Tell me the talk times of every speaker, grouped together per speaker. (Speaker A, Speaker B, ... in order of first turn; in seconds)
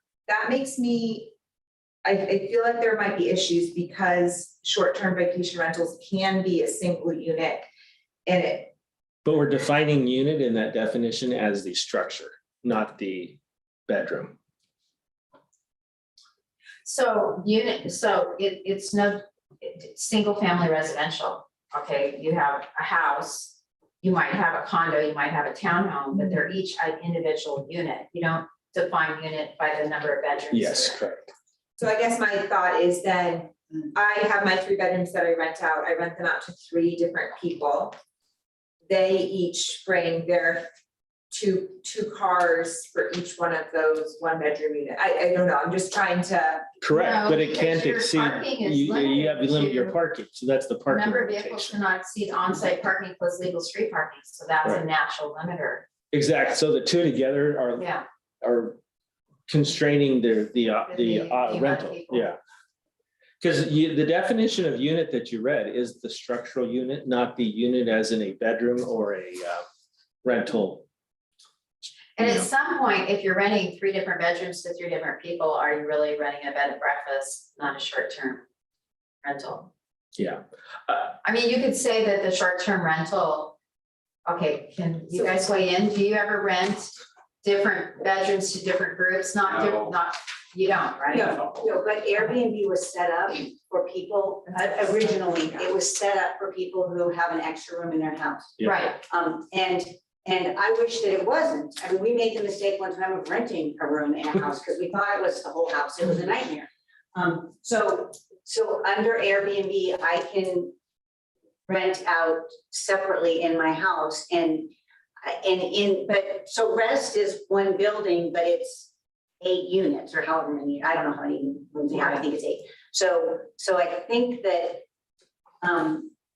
Speaker A: 0.3-1.3, 2.0-7.7, 8.2-8.7, 31.8-38.0, 38.9-40.7, 41.3-46.7
Speaker B: 9.2-14.3, 30.5-31.3, 46.8-51.8, 56.1-57.9, 58.4-58.8, 59.5-62.4, 63.4-69.6, 70.2-70.8, 72.2-72.5, 80.2-81.1
Speaker C: 16.8-31.0, 46.9-50.0, 50.9-55.9, 57.8-58.0, 60.8-62.3, 72.2-78.4, 79.2-79.7, 81.2-83.5, 84.2-91.3, 98.6-99.0
Speaker D: 91.1-110.7, 111.7-118.9, 119.4-124.8, 125.6-126.1